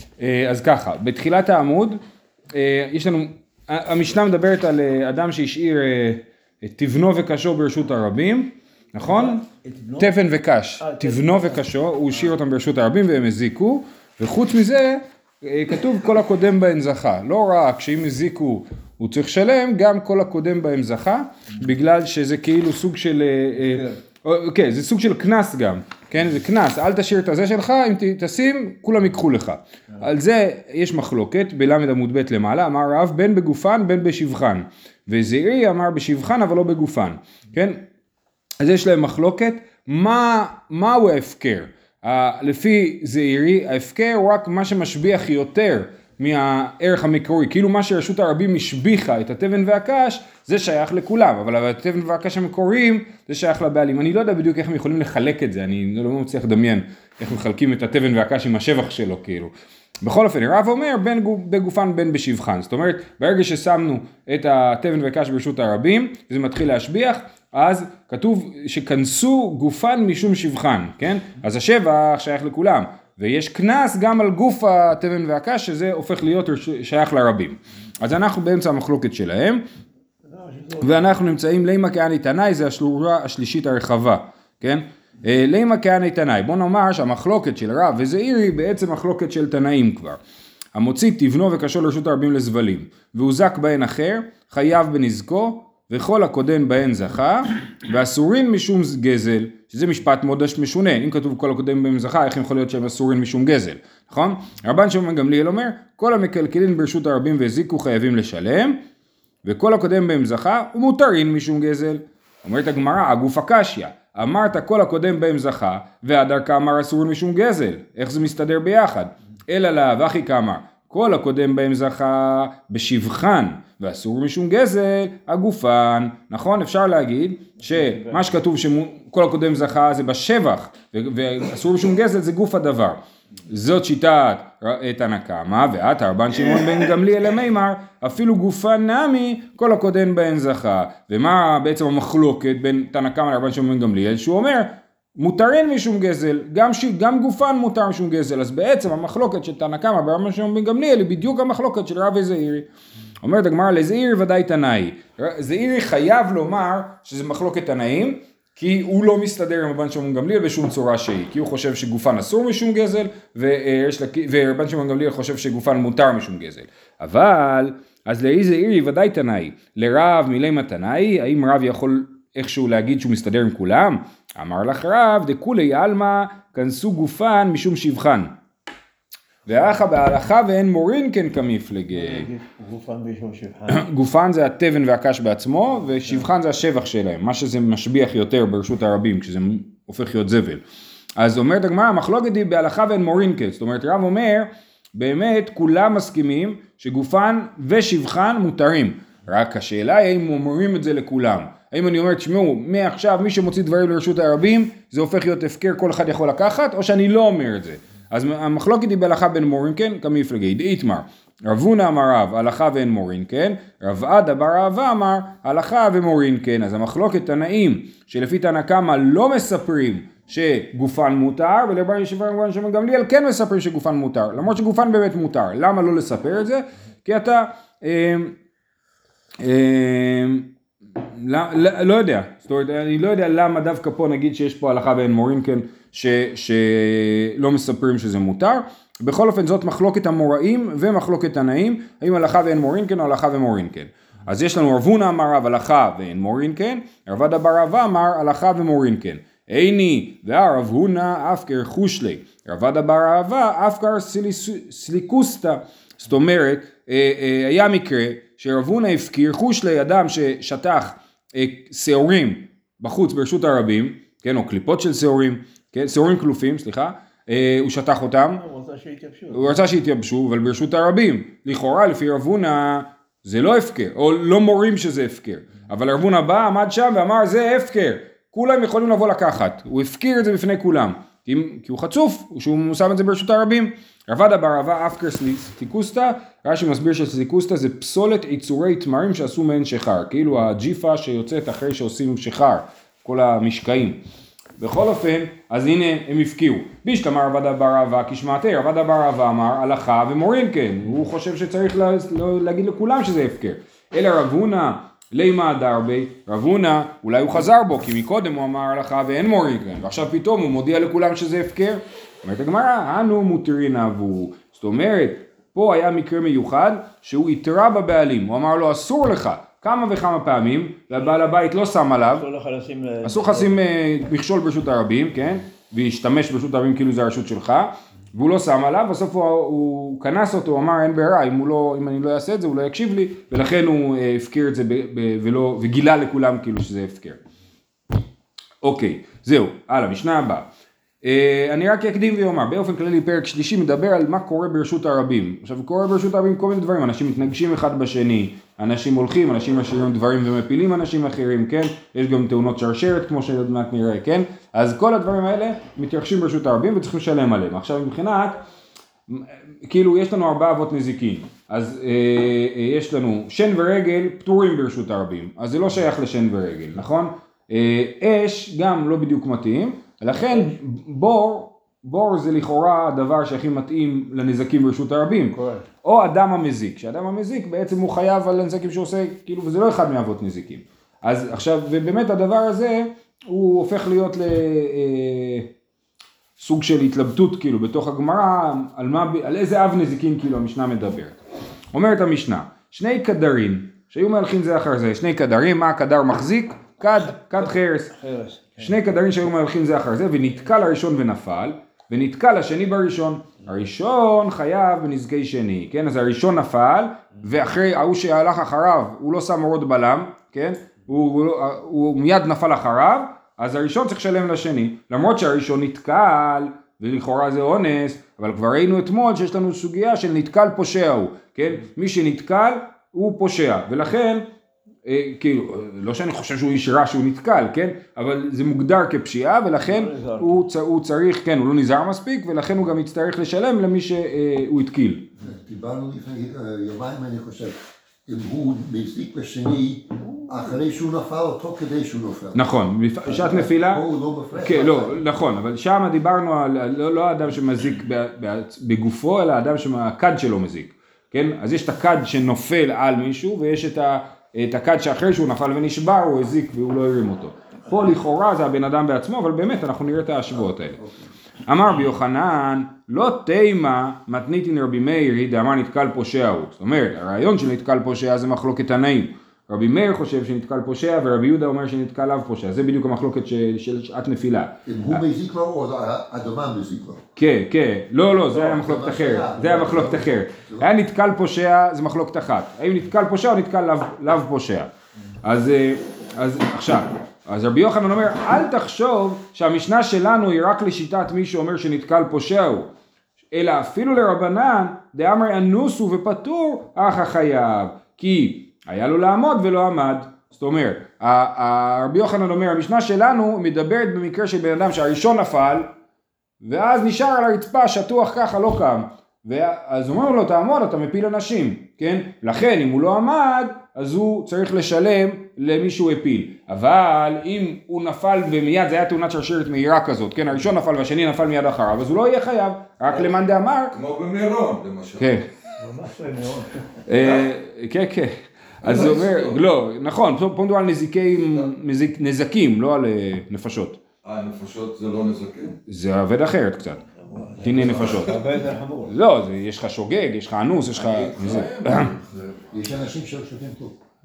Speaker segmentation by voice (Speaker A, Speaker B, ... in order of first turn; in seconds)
Speaker A: 0.2-2.0, 2.5-9.4, 10.0-37.8, 38.6-59.5, 60.0-79.6, 80.8-90.2, 90.7-108.8, 109.4-152.7, 153.2-178.3, 179.5-182.3, 183.7-190.6, 191.2-228.3, 229.4-230.5, 231.1-268.4, 269.3-294.0, 294.6-322.3, 323.0-337.2, 338.6-340.5, 341.0-358.4, 359.1-385.5, 386.4-391.2, 391.7-397.9, 398.6-424.2, 424.8-435.0, 442.3-443.8, 444.3-460.8, 461.5-475.0, 477.1-484.7, 485.2-492.7, 493.3-505.7, 506.4-523.7, 525.0-525.2, 526.9-533.8, 535.7-536.8, 537.4-538.1, 538.9-541.9
Speaker B: 9.0-10.1, 10.8-11.6, 80.2-81.1, 181.9-183.8, 268.4-269.6, 322.1-323.5, 375.3-375.6, 398.0-398.8, 429.6-430.4, 525.6-526.7, 537.0-538.9
Speaker C: 435.2-437.5, 438.1-442.5, 443.1-445.0, 474.6-477.0, 478.3-480.7, 542.5-543.7
Speaker D: 523.7-525.1, 528.6-529.4, 534.0-535.5, 537.5-538.0, 540.9-542.4